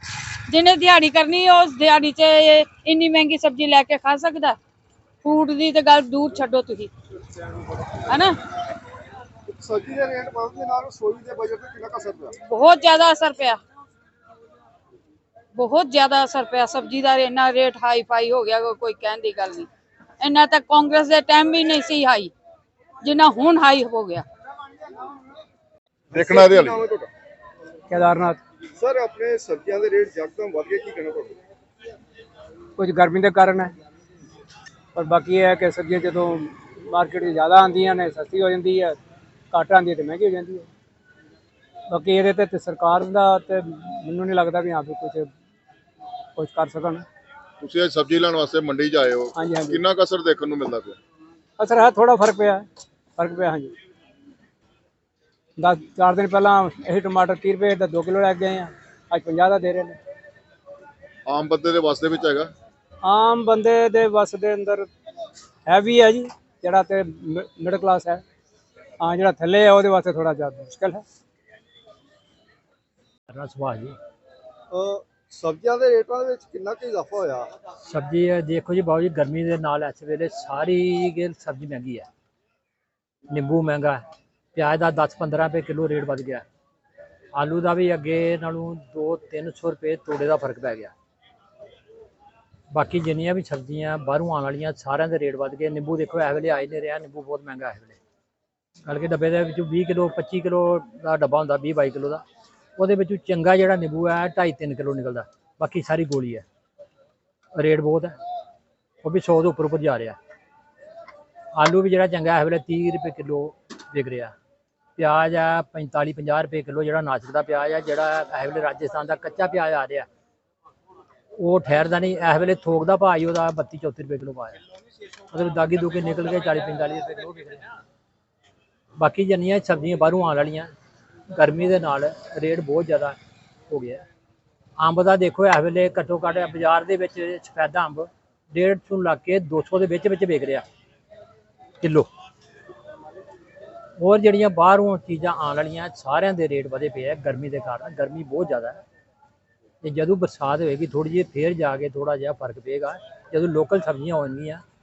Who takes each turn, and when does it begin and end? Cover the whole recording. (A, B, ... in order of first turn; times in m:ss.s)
0:00.5-0:04.6 A
0:05.2-0:06.9 A
0:08.0-0:08.3 A
0:09.5-0:12.3 B
0:12.4-0:13.6 A
0:15.5-0:19.7 A
0:20.2-0:22.3 A
0:23.0-0:24.2 A
0:26.1-0:27.1 B
0:26.1-0:26.8 C
0:27.9-0:28.4 D
0:28.8-0:31.4 B
0:32.8-0:33.7 D
0:34.9-0:39.0 D
0:39.5-0:40.7 D
0:41.9-0:45.3 D
0:46.4-0:47.0 D
0:47.6-0:51.0 C
0:49.4-0:49.8 D
0:51.6-0:52.6 D
0:53.2-0:53.7 D
0:55.6-1:00.0 D
1:01.3-1:02.5 C
1:03.0-1:04.9 D
1:05.7-1:08.2 D
1:09.0-1:11.0 D
1:13.3-1:13.9 E
1:14.7-1:17.5 B
1:17.8-1:22.0 E
1:23.3-1:24.0 E
1:24.5-1:26.4 E
1:27.3-1:30.9 E
1:32.7-1:38.0 E
1:38.8-1:42.2 E
1:42.8-1:46.4 E
1:47.5-1:48.1 E
1:49.0-1:50.2 E
1:51.5-1:54.3 E
1:55.0-2:00.0 E
2:01.4-2:04.6 E
2:05.3-2:07.7 E
2:09.0-2:10.7 E
2:11.3-2:13.2 E
2:13.7-2:14.0 E
2:14.8-2:20.6 E
2:21.8-2:22.1 E
2:24.0-2:28.8 E
2:29.8-2:34.6 E